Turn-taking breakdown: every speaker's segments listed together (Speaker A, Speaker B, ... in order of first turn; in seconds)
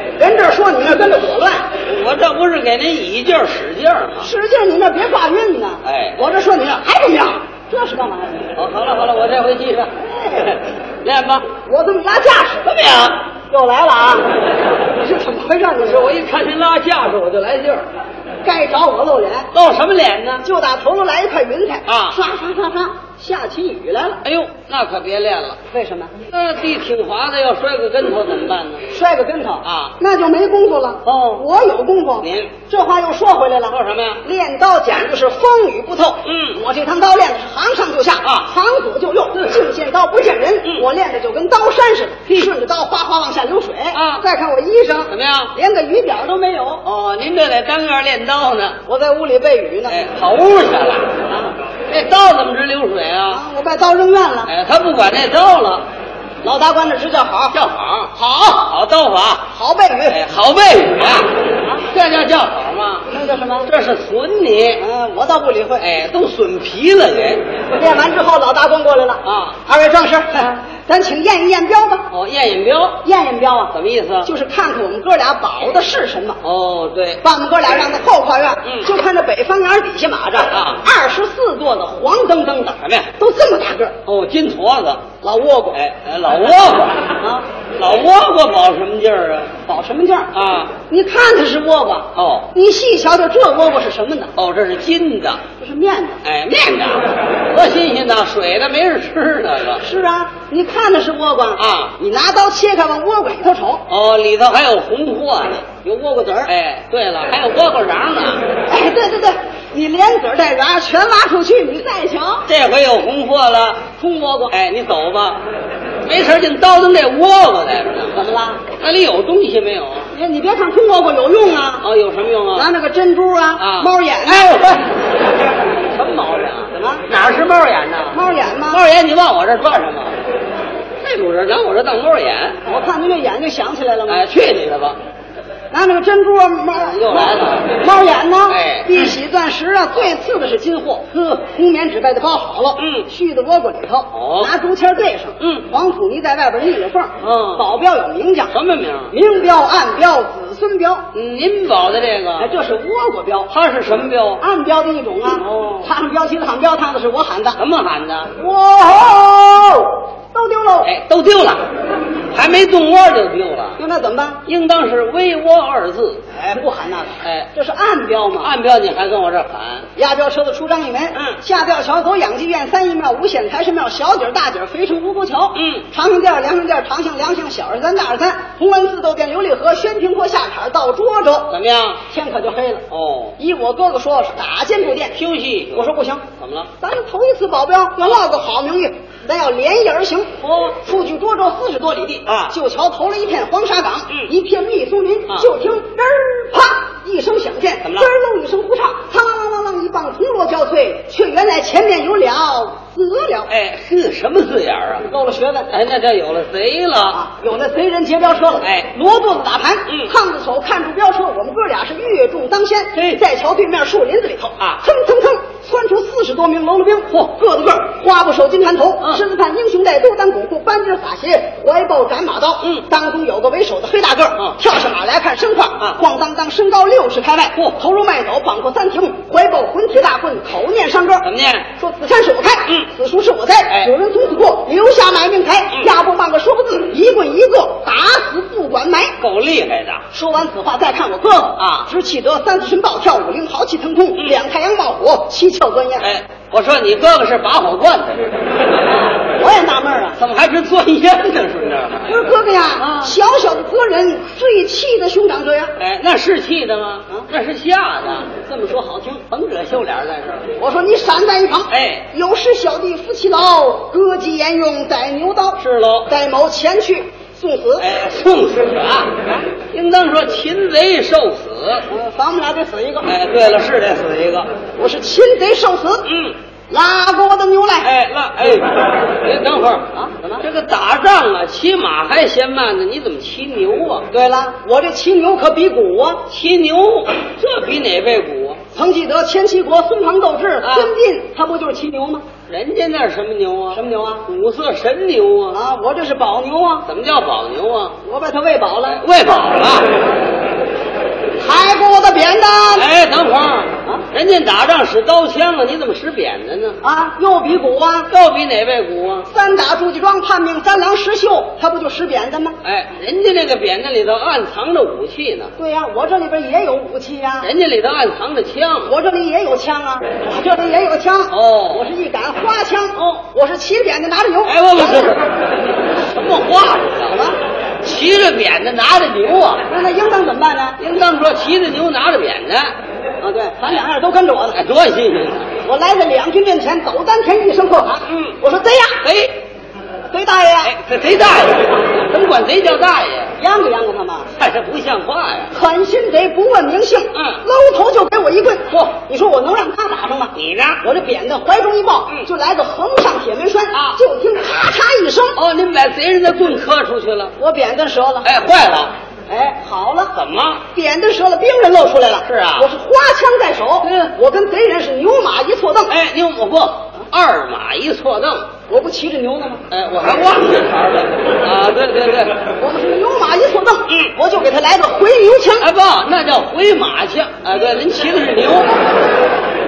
Speaker A: 0.2-1.7, 4.2-8.5, 10.0-10.6, 11.6-12.8, 13.5-14.2, 14.9-16.2, 18.4-19.5, 20.4-24.2, 25.7-26.1, 28.9-46.8, 48.9-50.0, 53.3-54.5, 56.4-57.6, 58.1-58.5, 59.5-60.2, 63.1-63.7, 64.8-65.9, 67.7-72.1, 73.0-76.4, 77.2-84.0, 85.2-85.8, 87.2-87.5, 89.7-90.3, 90.9-94.3, 95.6-96.2, 99.8-103.8, 105.8-106.5, 108.7-112.5, 114.0-114.5, 118.1-118.7, 120.1-121.9, 122.5-124.6, 126.7-127.0, 128.1-128.8, 132.6-134.3, 135.7-148.5, 149.1-151.1, 152.4-153.5, 154.4-157.6, 158.3-160.9, 163.8-164.4, 166.3-168.5, 169.9-182.8, 183.4-185.2, 185.7-186.3, 186.8-203.5, 205.1-205.7, 207.1-239.1, 240.1-246.1, 249.2-250.2, 252.1-255.7, 258.3-259.2, 260.6-267.9, 271.9-273.1, 274.8-276.1, 276.7-277.9, 279.9-280.4, 284.1-286.3, 288.7-292.2, 293.7-294.3, 295.5-296.9, 298.0-299.0, 301.4-302.9, 306.8-308.1, 309.3-312.6, 315.6-317.5, 318.8-325.2, 327.1-327.4, 329.7-330.8, 333.2-334.6, 335.6-339.1, 340.1-340.7, 343.4-344.3, 345.5-355.4, 357.4-358.3, 359.3-360.1, 360.7-365.9, 368.7-369.6, 372.6-375.7
Speaker B: 1.9-4.3, 5.8-6.2, 8.6-11.5, 12.7-13.2, 15.8-17.9, 19.5-20.4, 21.9-22.2, 24.2-25.6, 26.3-28.9, 29.6-29.9, 31.1-31.4, 32.2-32.5, 33.7-34.2, 36.2-36.6, 38.2-38.5, 43.9-44.2, 45.1-45.5, 46.8-48.8, 49.9-51.2, 51.9-53.4, 54.5-55.9, 57.5-59.5, 60.1-61.3, 61.9-63.1, 63.6-64.8, 65.8-67.4, 69.2-69.6, 72.1-73.0, 73.7-74.3, 76.4-77.2, 80.5-80.8, 82.8-83.1, 84.0-85.1, 85.7-87.2, 87.8-89.6, 90.3-90.8, 92.2-92.5, 94.3-95.4, 96.2-99.8, 101.6-101.9, 103.9-105.8, 106.5-108.5, 112.5-113.9, 114.5-115.4, 116.0-120.1, 121.8-122.7, 123.6-125.0, 125.8-130.1, 131.0-132.6, 134.1-135.0, 136.9-137.8, 138.5-139.0, 142.8-143.1, 144.1-144.5, 145.4-145.7, 147.2-147.6, 148.5-149.1, 151.1-152.5, 153.5-154.4, 155.4-155.9, 157.6-158.3, 160.8-161.7, 162.3-163.8, 164.4-166.2, 167.2-167.5, 168.4-169.9, 171.1-171.4, 175.5-175.9, 181.5-182.0, 182.9-183.3, 185.1-186.7, 190.4-190.8, 192.2-192.5, 197.8-198.1, 203.5-205.1, 205.7-207.2, 208.6-208.9, 209.9-210.1, 212.9-213.2, 231.2-231.7, 239.2-240.0, 241.6-241.9, 246.0-248.4, 250.2-252.2, 252.8-253.1, 255.8-258.4, 259.3-260.5, 261.7-262.1, 265.6-266.1, 267.8-269.2, 269.7-271.9, 273.0-274.5, 276.0-276.4, 277.8-284.1, 286.3-288.6, 290.6-290.9, 292.5-295.6, 296.9-298.0, 298.9-300.0, 302.7-306.8, 308.1-309.3, 312.6-315.5, 317.4-318.9, 321.3-321.9, 324.4-325.4, 326.0-327.2, 327.8-329.6, 330.8-332.7, 334.5-335.5, 338.1-338.4, 339.0-339.4, 340.6-343.3, 344.4-345.5, 347.1-347.4, 350.3-350.8, 353.7-354.0, 355.4-357.3, 358.2-358.9, 360.1-360.6, 362.2-362.7, 363.8-364.1, 365.9-368.5, 369.7-372.5, 375.6-378.8